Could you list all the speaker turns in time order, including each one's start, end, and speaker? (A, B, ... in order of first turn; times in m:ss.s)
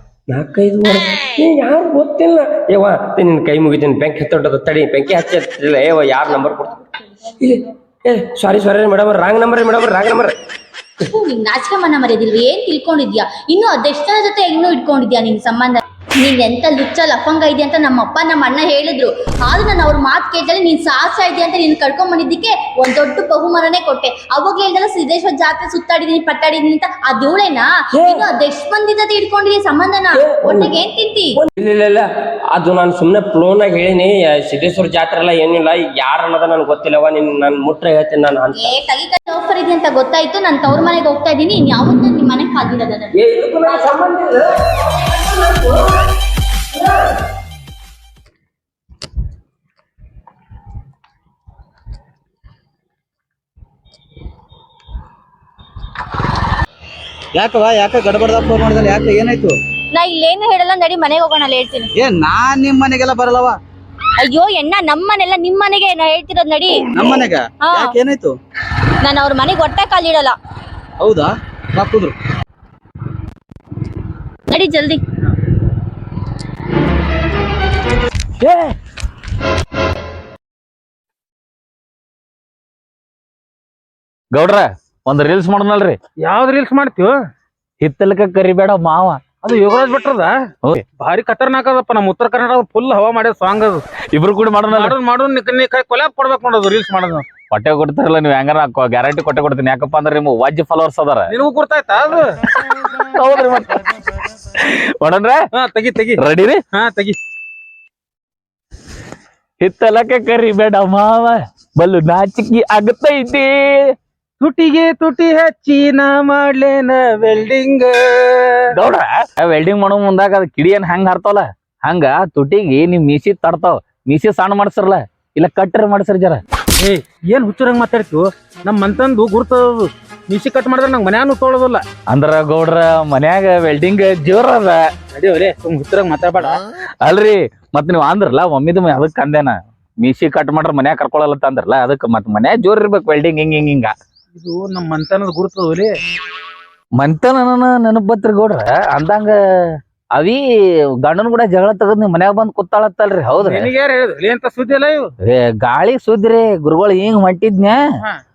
0:00.3-0:06.7 A
0:06.3-0:07.7 B
0:07.4-0:10.3 A
0:11.0-0:31.4 B
0:27.9-0:28.2 A
0:30.1-0:30.7 A
0:31.4-0:38.7 A
0:38.5-0:43.9 B
0:43.1-0:46.0 A
0:57.4-0:59.5 C
0:59.9-1:01.9 B
1:02.0-1:03.5 C
1:04.2-1:06.8 B
1:07.0-1:08.3 C
1:07.6-1:07.9 B
1:09.0-1:10.4 B
1:11.0-1:12.1 C
1:14.5-1:15.0 B
1:24.3-1:26.0 D
1:26.2-1:27.2 E
1:27.8-1:29.2 D
1:29.4-1:30.4 E
1:31.0-1:33.8 E
1:34.1-1:35.0 D
1:34.7-1:37.2 E
1:37.5-1:41.3 D
1:41.3-1:42.3 E
1:42.8-1:45.4 D
1:45.5-1:46.2 E
1:46.2-1:46.6 D
1:46.7-1:47.2 E
1:49.6-1:53.9 D
1:54.4-1:58.6 E
1:58.7-2:06.4 D
2:06.8-2:11.8 E
2:12.1-2:14.9 D
2:15.1-2:16.6 E
2:17.0-2:23.9 D
2:24.3-2:25.9 E
2:27.0-2:30.4 D
2:31.0-2:33.7 D
2:33.4-2:35.1 E
2:35.2-2:37.8 D